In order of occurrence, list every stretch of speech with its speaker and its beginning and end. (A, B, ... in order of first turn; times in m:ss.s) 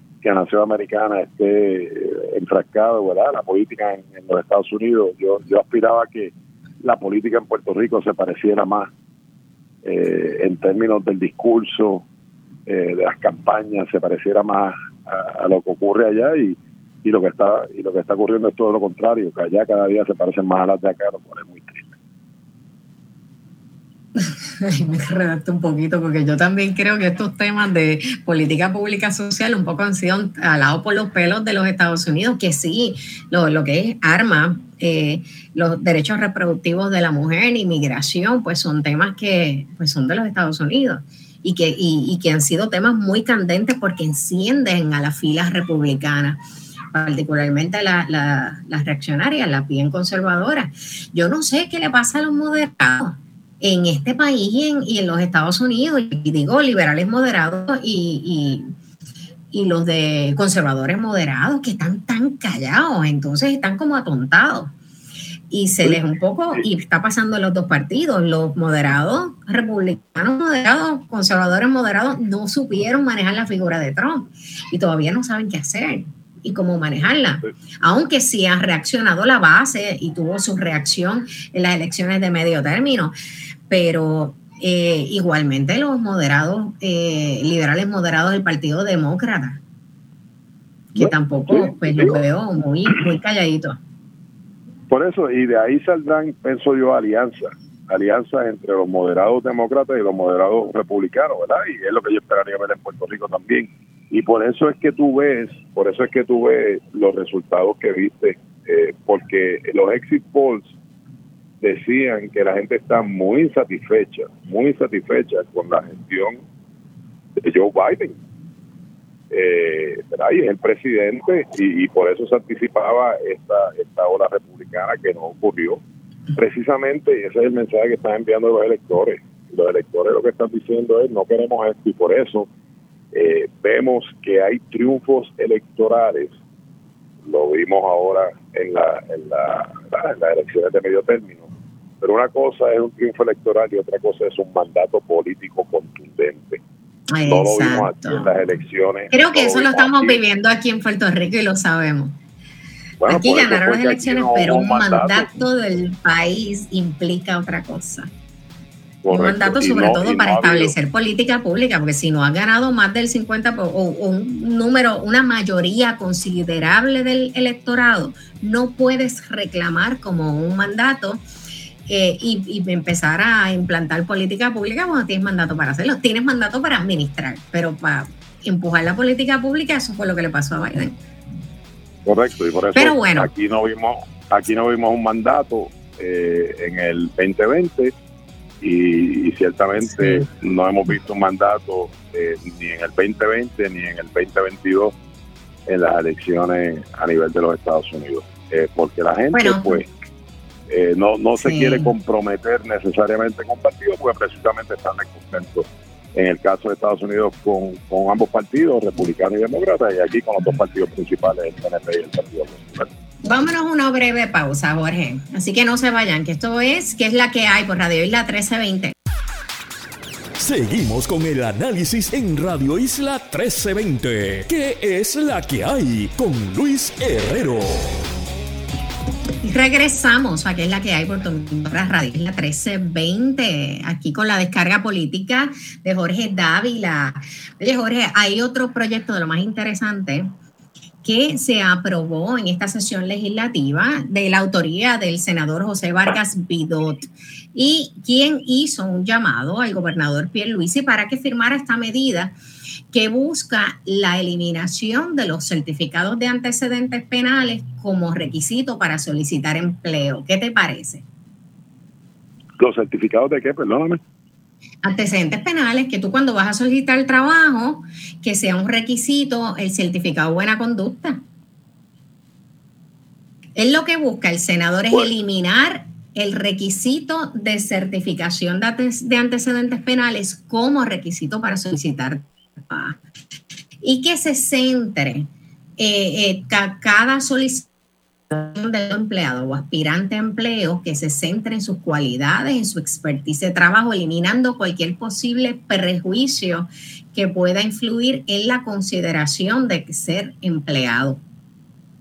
0:00.2-0:08.9 A
0:09.8-0:12.0 A
0:12.7-0:21.9 A
0:24.1-0:46.4 B
0:46.9-0:58.7 B
0:59.5-1:04.7 B
1:05.5-1:23.1 B
1:23.7-1:29.6 B
1:30.9-1:33.8 B
1:31.0-1:32.2 A
1:34.9-1:50.7 A
1:51.6-1:56.4 A
1:57.4-1:58.2 A
1:59.3-2:05.8 A
2:06.3-2:12.5 A
2:13.1-2:16.3 A
2:17.2-2:21.5 A
2:22.0-2:26.6 A
2:27.1-2:28.3 B
2:27.2-2:30.2 A
2:29.1-2:32.2 B
2:33.0-2:35.3 A
2:33.1-2:38.1 B
2:39.0-2:40.7 A
2:39.1-2:51.2 B
2:51.9-3:01.0 B
3:02.0-3:07.9 A
3:02.7-3:03.3 B
3:08.6-3:14.9 A
3:15.7-3:19.9 A
3:19.3-3:19.8 B
3:20.7-3:32.9 A
3:21.4-3:21.9 B
3:33.2-3:38.9 B
3:40.4-3:48.0 C
3:49.4-4:00.3 B
4:01.0-4:12.3 B
4:12.9-4:21.0 B
4:22.6-4:24.0 A
4:24.8-4:31.2 B
4:33.6-4:43.0 B
4:43.8-4:45.3 B
4:45.8-4:47.7 B
4:48.3-5:01.2 B